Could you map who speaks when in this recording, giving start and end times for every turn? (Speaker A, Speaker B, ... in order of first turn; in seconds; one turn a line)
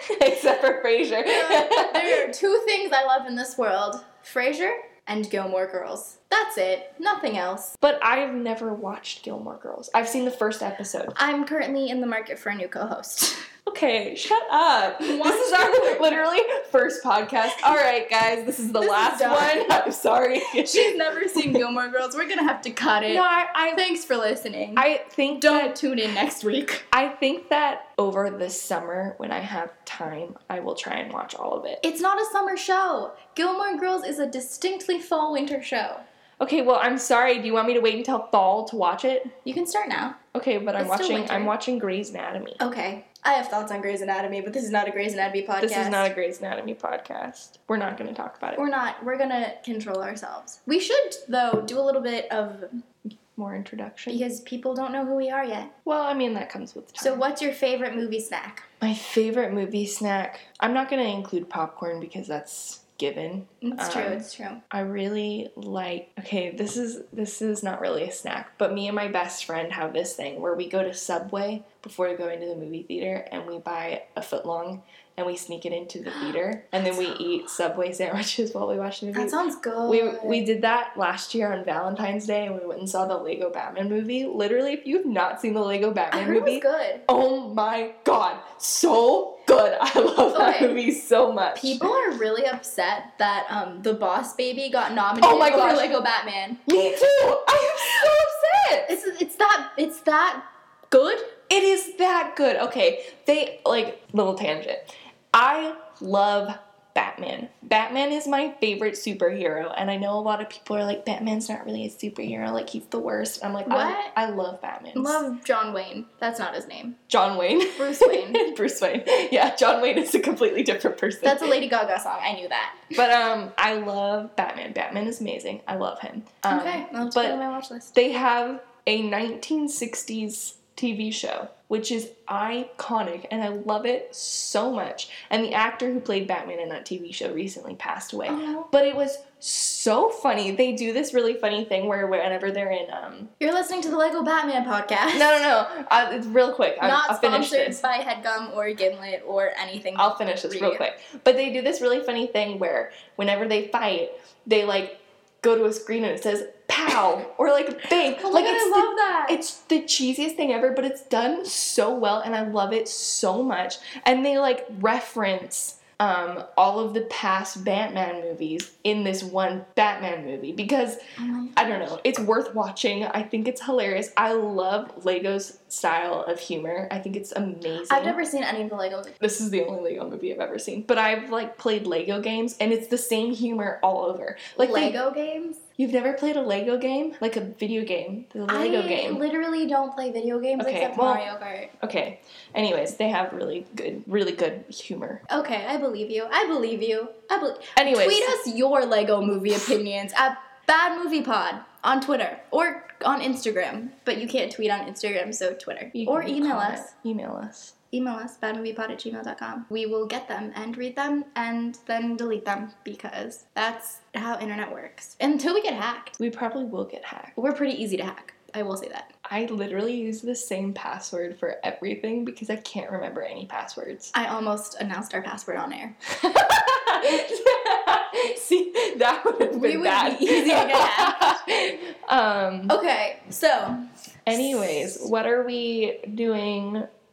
Speaker A: 0.2-2.2
Speaker B: 1.3-7.7
Speaker A: 7.8-11.2
Speaker B: 11.2-13.4
Speaker A: 13.7-21.6
Speaker B: 15.0-16.2
Speaker B: 18.8-19.7
Speaker B: 20.7-26.8
Speaker A: 23.1-23.8
Speaker A: 24.8-25.8
Speaker A: 26.9-31.8
Speaker B: 31.8-36.0
Speaker A: 36.4-39.3
Speaker B: 39.4-40.2
Speaker A: 40.3-42.6
Speaker B: 40.8-41.5
Speaker B: 42.6-46.1
Speaker A: 45.6-48.6
Speaker B: 48.5-52.8
Speaker A: 53.3-54.2
Speaker B: 54.1-55.7
Speaker A: 55.8-57.2
Speaker B: 57.0-58.7
Speaker A: 58.8-92.0
Speaker B: 63.6-64.6
Speaker B: 79.1-80.5
Speaker B: 86.1-87.0
Speaker B: 90.3-90.8
Speaker B: 91.5-96.6
Speaker A: 95.2-96.0
Speaker A: 96.7-98.9
Speaker B: 98.9-101.4
Speaker A: 101.5-115.2
Speaker B: 113.7-114.1
Speaker B: 114.9-117.0
Speaker A: 117.1-121.5
Speaker B: 117.7-118.4
Speaker B: 121.2-123.0
Speaker A: 122.9-127.4
Speaker B: 126.5-128.0
Speaker A: 127.9-143.3
Speaker B: 138.3-138.7
Speaker B: 143.4-145.5
Speaker A: 145.1-147.8
Speaker B: 146.8-150.8
Speaker A: 149.9-171.0
Speaker B: 158.2-159.4
Speaker B: 171.2-171.8
Speaker A: 171.6-178.2
Speaker B: 177.9-179.2
Speaker A: 179.2-184.9
Speaker B: 184.6-185.6
Speaker A: 185.8-189.2
Speaker B: 188.5-191.7
Speaker A: 190.6-191.2
Speaker A: 191.8-195.2
Speaker B: 195.3-206.9
Speaker A: 197.8-198.3
Speaker A: 205.9-207.7
Speaker B: 207.9-216.2
Speaker A: 216.2-217.3
Speaker B: 217.4-219.1
Speaker A: 219.2-224.1
Speaker B: 224.1-225.9
Speaker A: 226.2-232.8
Speaker B: 229.5-231.3
Speaker B: 232.7-233.8
Speaker A: 234.2-236.9
Speaker B: 234.3-235.1